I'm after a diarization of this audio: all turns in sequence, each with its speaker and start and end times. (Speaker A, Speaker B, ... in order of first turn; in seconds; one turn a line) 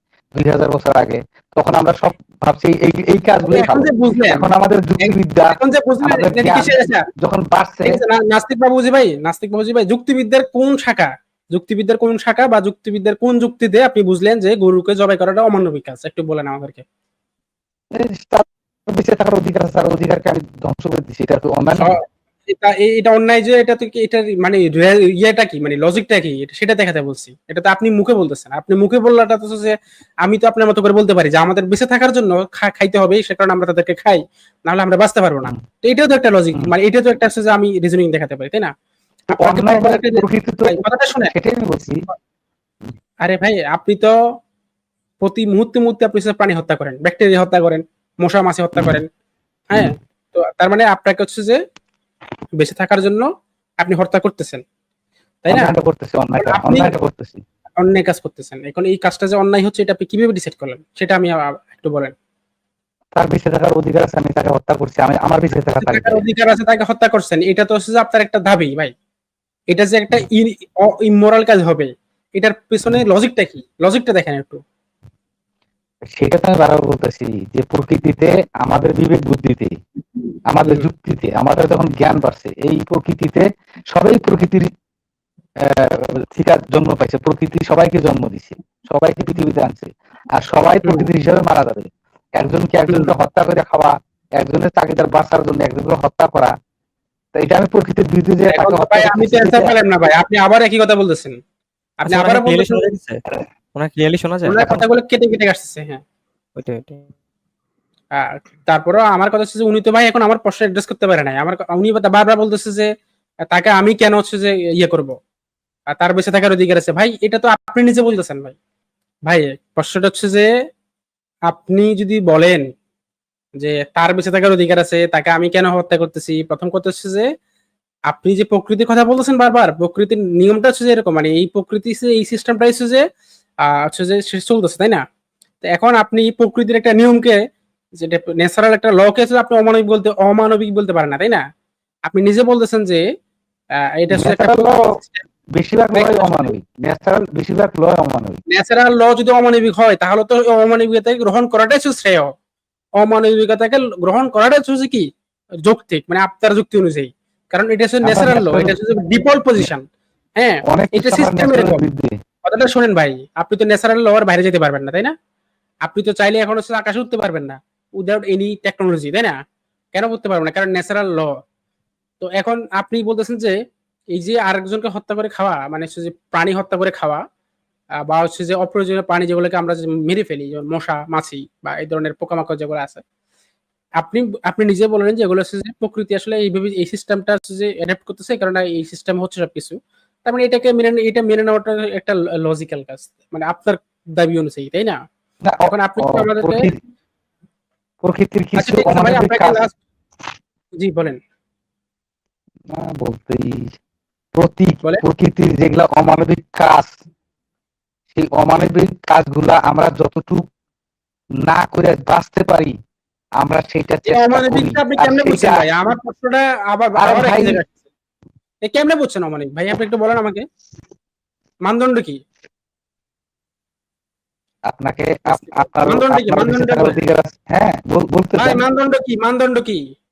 Speaker A: 0.4-7.9
Speaker B: 3.5-4.5
Speaker B: 5.0-7.0
Speaker B: 7.8-16.8
Speaker A: 17.9-21.9
Speaker B: 22.5-38.7
Speaker B: 39.3-41.3
Speaker A: 39.3-41.9
Speaker B: 43.2-44.1
Speaker B: 45.2-49.1
Speaker B: 49.7-51.6
Speaker B: 52.6-53.3
Speaker B: 53.8-54.6
Speaker B: 55.4-55.7
Speaker A: 55.5-57.4
Speaker B: 56.4-56.9
Speaker B: 57.8-62.1
Speaker A: 63.1-66.2
Speaker B: 65.8-68.9
Speaker B: 69.7-74.6
Speaker A: 76.2-79.7
Speaker A: 80.5-84.7
Speaker A: 85.7-91.9
Speaker A: 92.4-96.5
Speaker A: 97.3-99.7
Speaker B: 98.5-101.3
Speaker B: 102.0-102.9
Speaker C: 102.0-103.2
Speaker C: 103.7-104.8
Speaker B: 104.5-106.0
Speaker C: 106.6-107.0
Speaker B: 108.2-112.9
Speaker B: 113.5-115.1
Speaker B: 115.9-118.5
Speaker B: 119.3-120.5
Speaker B: 121.5-122.6
Speaker B: 123.6-127.2
Speaker B: 128.1-133.0
Speaker B: 133.8-135.0
Speaker B: 135.6-137.4
Speaker B: 138.0-141.4
Speaker B: 142.1-143.0
Speaker B: 144.0-145.2
Speaker A: 144.1-144.9
Speaker A: 145.6-148.4
Speaker B: 145.9-146.5
Speaker B: 148.5-152.3
Speaker B: 153.0-155.1
Speaker B: 155.6-159.8
Speaker A: 158.0-158.7
Speaker B: 160.4-161.8
Speaker A: 160.7-162.2
Speaker B: 162.4-165.1
Speaker B: 165.8-169.3
Speaker B: 169.9-171.3
Speaker B: 172.2-173.5
Speaker B: 174.1-177.2
Speaker B: 178.1-183.0
Speaker B: 184.0-195.0
Speaker A: 195.4-196.8
Speaker B: 195.7-196.7
Speaker A: 198.0-199.6
Speaker B: 198.6-199.7
Speaker B: 200.8-201.2
Speaker A: 202.7-203.8
Speaker A: 204.4-207.0
Speaker A: 208.1-210.5
Speaker A: 211.4-212.7
Speaker A: 213.4-215.6
Speaker B: 214.1-217.8
Speaker A: 217.0-217.6
Speaker B: 218.6-220.4
Speaker B: 221.7-222.2
Speaker A: 224.7-228.6
Speaker B: 225.3-227.0
Speaker B: 228.4-229.8